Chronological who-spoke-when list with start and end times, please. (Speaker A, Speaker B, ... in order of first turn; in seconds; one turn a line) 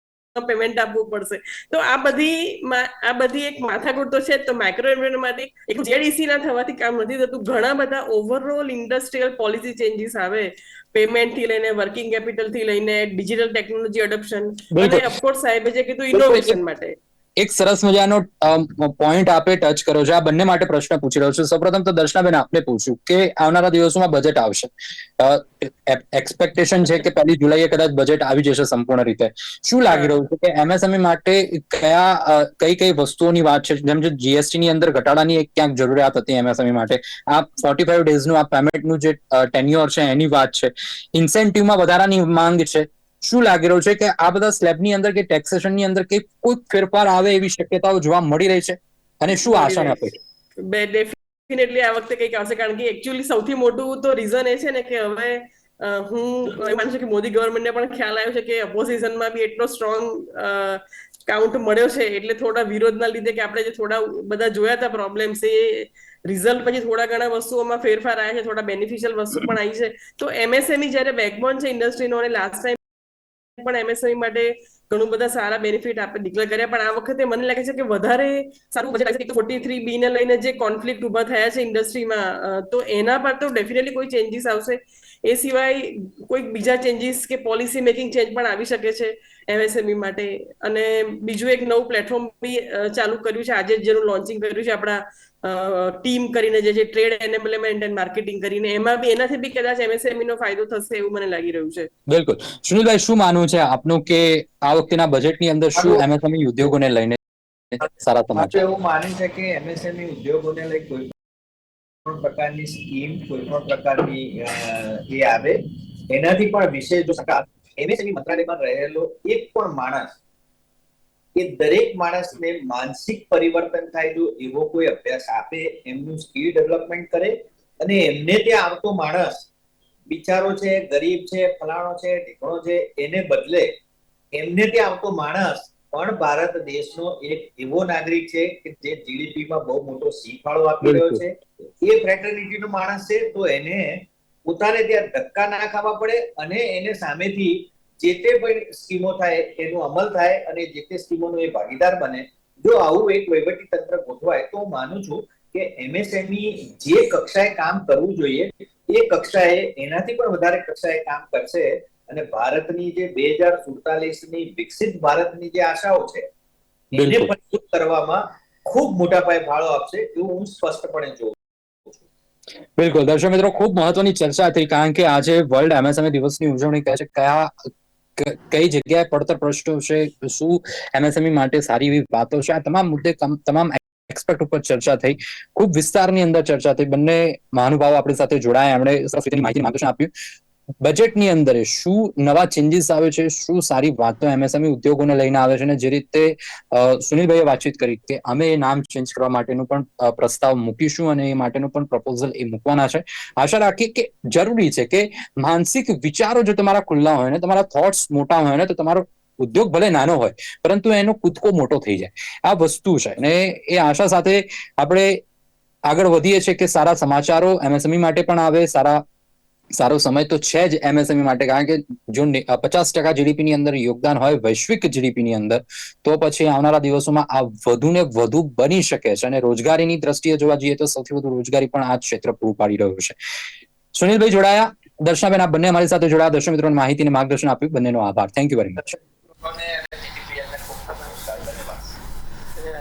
Speaker A: 0.3-16.9
Speaker B: 14.7-15.1
Speaker B: 16.1-16.6
Speaker B: 17.4-50.1
Speaker A: 29.9-30.1
Speaker A: 49.3-72.8
Speaker A: 73.6-101.9
Speaker B: 102.1-107.2
Speaker C: 105.8-106.0
Speaker B: 107.7-108.7
Speaker C: 108.3-111.1
Speaker C: 112.0-120.2
Speaker C: 121.3-129.5
Speaker C: 130.1-133.7
Speaker C: 134.3-166.3
Speaker B: 140.8-141.2
Speaker C: 166.9-172.0
Speaker B: 166.9-167.3
Speaker B: 172.8-177.5
Speaker B: 178.2-190.1
Speaker B: 190.8-215.2
Speaker B: 215.9-219.0
Speaker B: 219.7-233.1
Speaker B: 233.9-238.9
Speaker C: 239.4-241.9